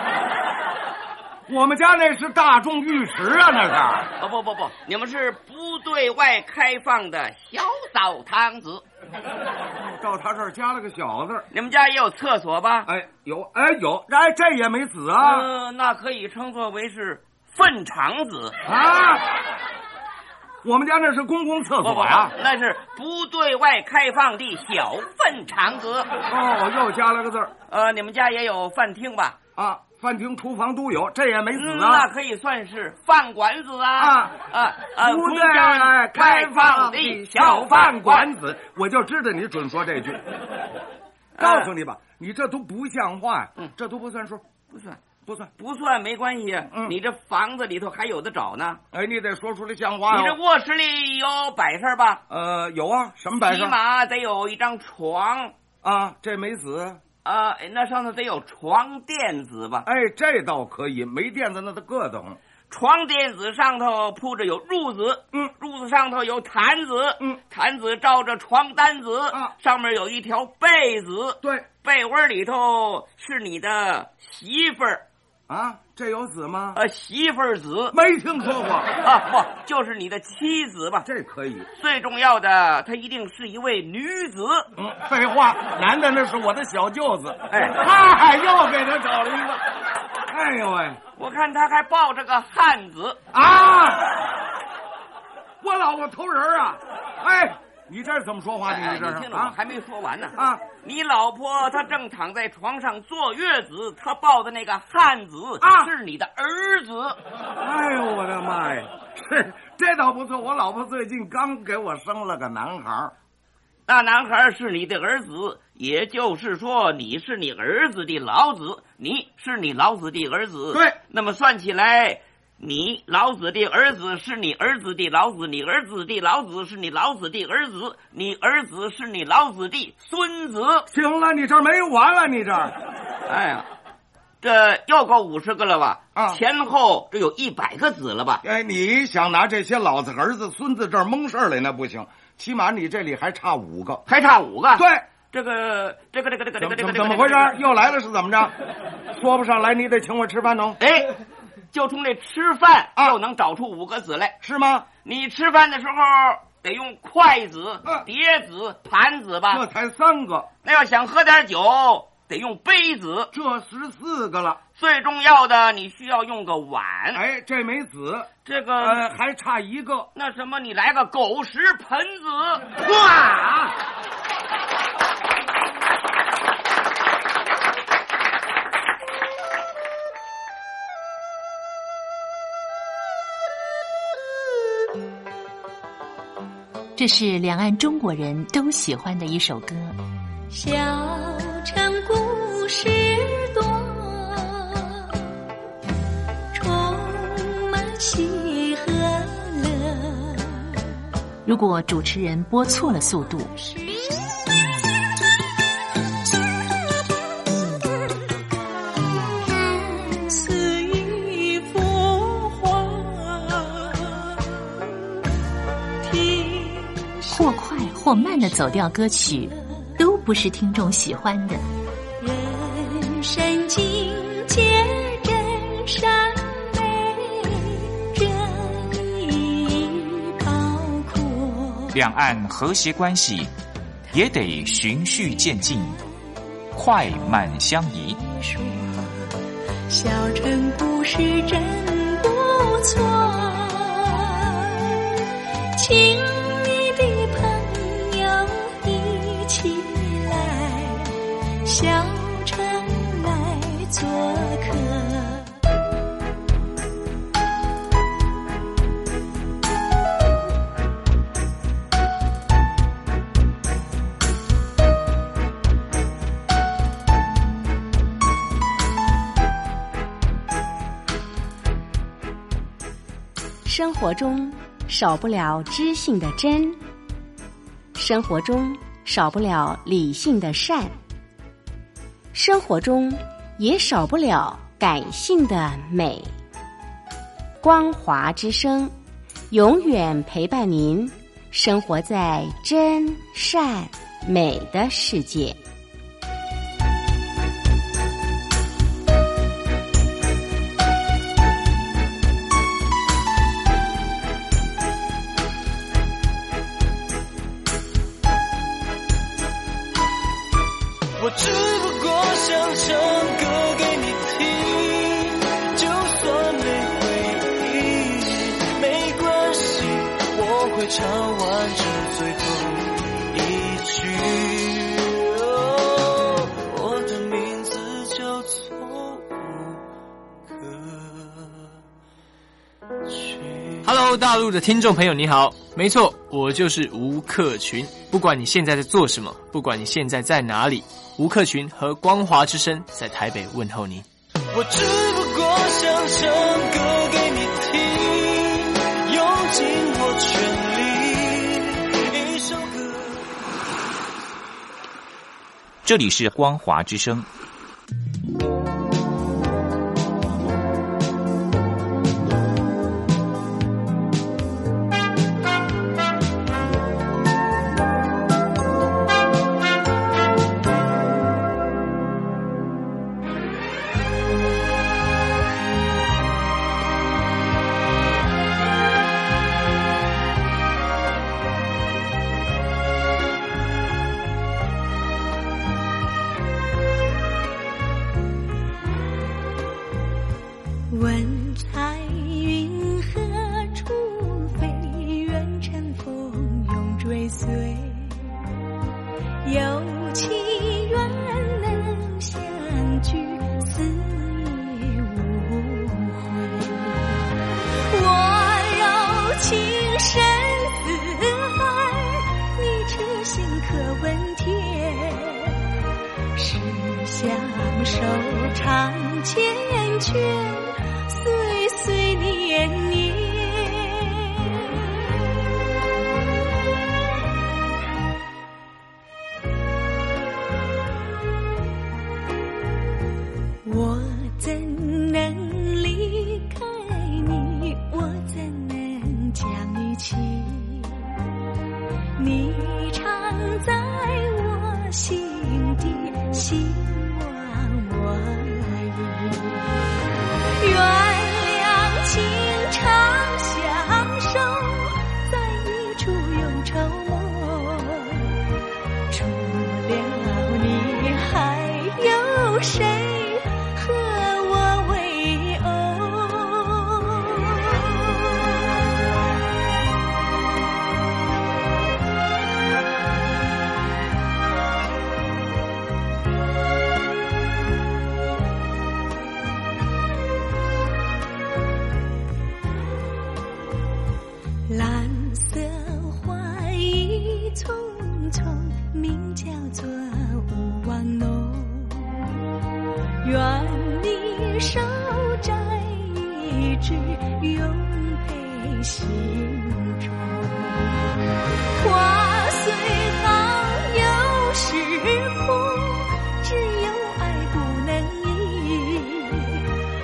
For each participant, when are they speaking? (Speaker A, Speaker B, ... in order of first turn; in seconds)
Speaker A: 1.5-4.1, 9.9-11.5, 12.9-15.5, 18.7-19.2, 20.6-22.3, 26.3-27.5, 29.6-32.1, 34.0-34.4, 35.0-40.2, 41.4-44.4, 45.2-45.5, 46.7-47.0, 48.9-50.4, 52.3-53.8, 55.8-57.0, 59.9-62.4, 71.4-71.7, 75.5-76.8, 77.9-78.9, 81.0-81.7, 84.8-89.6, 90.3-91.0, 93.3-94.1, 95.6-99.5, 100.4-100.7, 105.6-105.9, 107.6-113.1, 130.9-132.7, 136.2-136.4, 138.4-144.0, 144.8-145.0, 146.6-148.5, 149.1-150.8, 154.4-154.9, 159.5-160.5, 163.3-164.6, 167.1-168.3, 168.8-170.1, 172.8-173.7
Speaker B: 4.2-8.8, 11.5-12.9, 15.2-18.6, 21.8-26.1, 27.7-29.4, 31.5-38.3, 41.4-41.7, 44.7-45.0, 45.6-48.8, 50.1-52.2, 53.5-55.5, 57.2-59.9, 62.7-75.0, 76.8-78.0, 79.0-81.1, 81.8-84.7, 87.5-87.8, 91.2-93.2, 98.7-107.2, 113.9-130.9, 133.3-133.7, 134.4-138.4, 144.1-147.6, 150.8-151.1, 151.7-154.4, 155.0-159.6, 160.6-163.3, 164.8-167.2, 168.4-169.1, 170.2-172.7
Speaker C: 187.0-189.9, 201.4-203.5, 217.3-221.6
Speaker D: 190.5-195.2, 196.5-200.7, 209.6-214.8, 216.0-218.2, 222.2-232.0, 238.2-239.3, 239.9-245.1, 245.8-255.5, 390.9-398.4, 399.4-407.3, 407.9-415.6, 416.4-424.7, 433.6-441.1, 442.2-449.8, 450.6-458.4, 459.1-468.5, 484.7-492.4, 493.2-501.0, 501.8-509.6
Speaker E: 232.2-233.3, 355.9-357.1
Speaker F: 273.7-276.8, 278.0-280.9, 282.3-286.3, 287.6-288.9, 289.5-295.6
Speaker G: 311.2-329.7, 330.6-331.2, 333.3-333.8, 344.5-351.6, 352.2-352.9
Speaker H: 333.9-344.0